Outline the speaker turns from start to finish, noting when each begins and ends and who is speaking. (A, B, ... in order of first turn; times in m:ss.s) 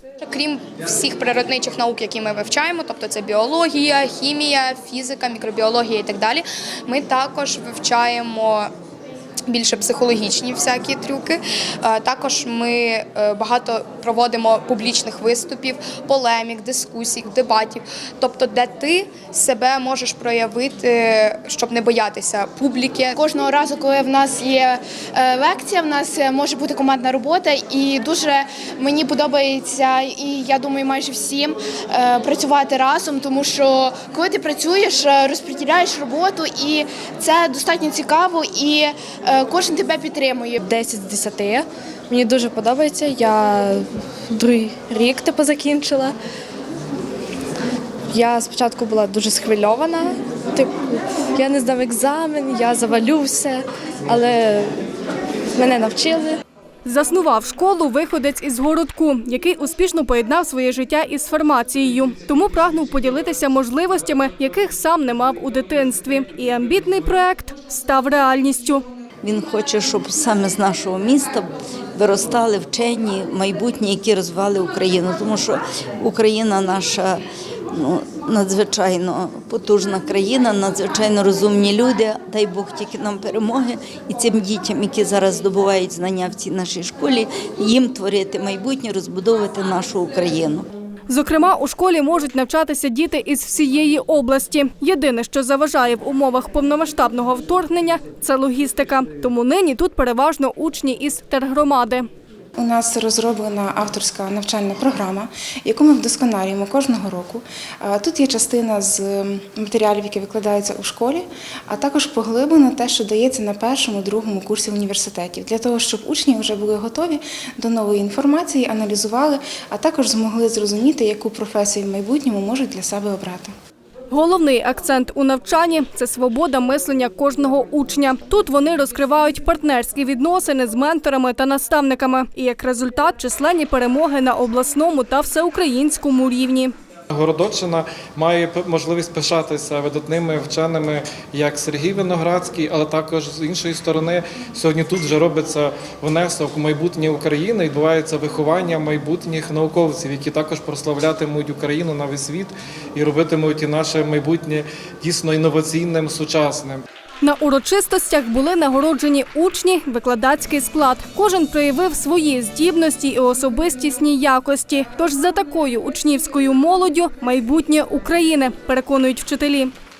0:00.2-0:08.7 A
0:09.5-0:23.1 A
0:23.1-0:40.6 B
0:40.6-0:46.1 C
0:48.1-0:54.7 C
0:55.6-0:56.4 C
0:56.8-1:08.8 D
1:09.2-1:17.2 E
1:17.7-1:30.6 E
1:31.1-1:42.1 D
1:42.6-2:03.5 F
2:04.1-2:16.7 D
2:17.1-2:36.8 G
2:37.2-2:49.7 D